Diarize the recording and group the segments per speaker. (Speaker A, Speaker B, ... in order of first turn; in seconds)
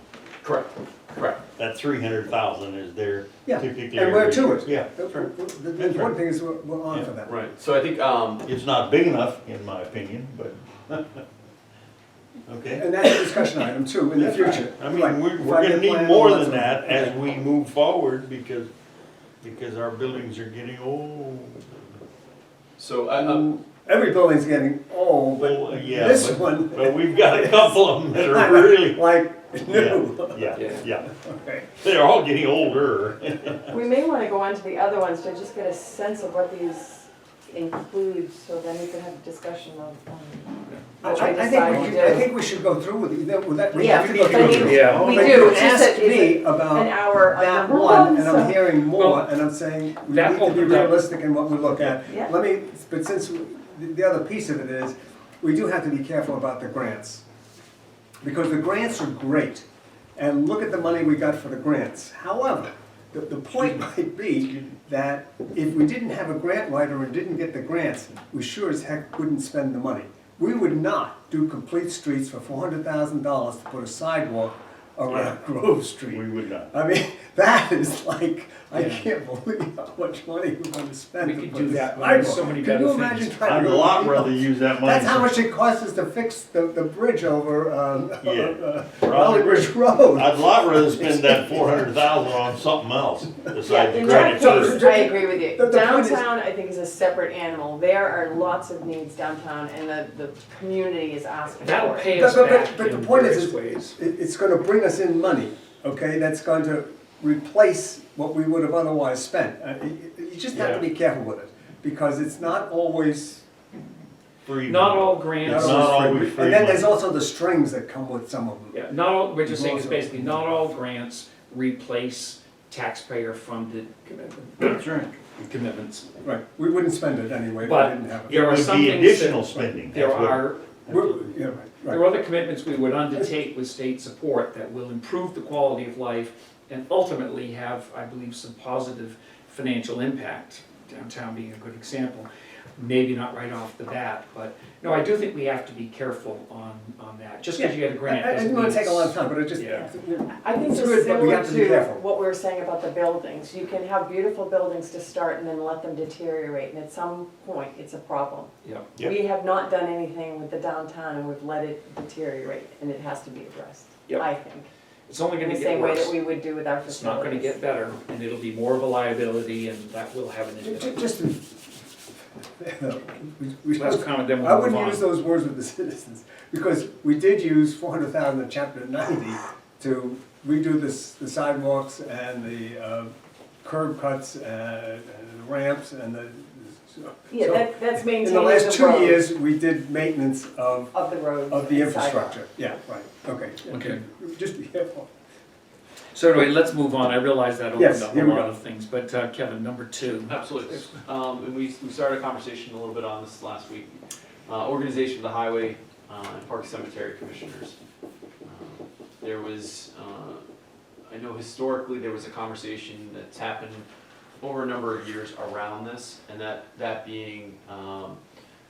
Speaker A: 0.4-1.4, 7.2-8.4, 22.8-23.5, 200.2-207.8, 208.4-210.4, 211.1-213.8, 214.4-218.2
Speaker B: 1.6-6.1, 8.4-11.2, 12.5-13.4, 14.2-18.7, 19.4-21.6, 25.4-29.0, 29.7-31.1, 31.8-33.6, 44.1-45.6, 75.1-75.3, 76.0-76.7, 83.4-85.3, 88.2-94.8, 114.5-116.9, 124.6-125.2, 128.4-130.5
Speaker C: 3.4-7.3, 12.7-17.1, 23.1-31.8, 41.0-57.2, 58.2-59.6, 60.1-91.9, 94.1-96.2, 102.1-113.4, 115.4-120.5, 126.2-129.7, 130.9-132.1, 147.6-152.0, 170.6-171.7, 172.6-183.1, 183.6-190.9, 191.5-195.1, 197.7-198.6
Speaker D: 33.7-42.3, 43.7-48.8, 93.6-102.2, 150.3-164.7, 165.3-167.7, 187.3-189.3, 190.9-192.4
Speaker E: 40.7-41.1, 44.5-45.3, 48.9-49.2, 50.0-51.0, 78.7-79.0, 81.2-83.4, 101.6-104.0, 114.6-116.1, 118.7-126.1, 127.6-131.2, 131.8-149.8, 158.6-159.0, 165.1-166.1, 166.8-171.0, 173.8-175.0, 193.6-194.0, 196.1-200.9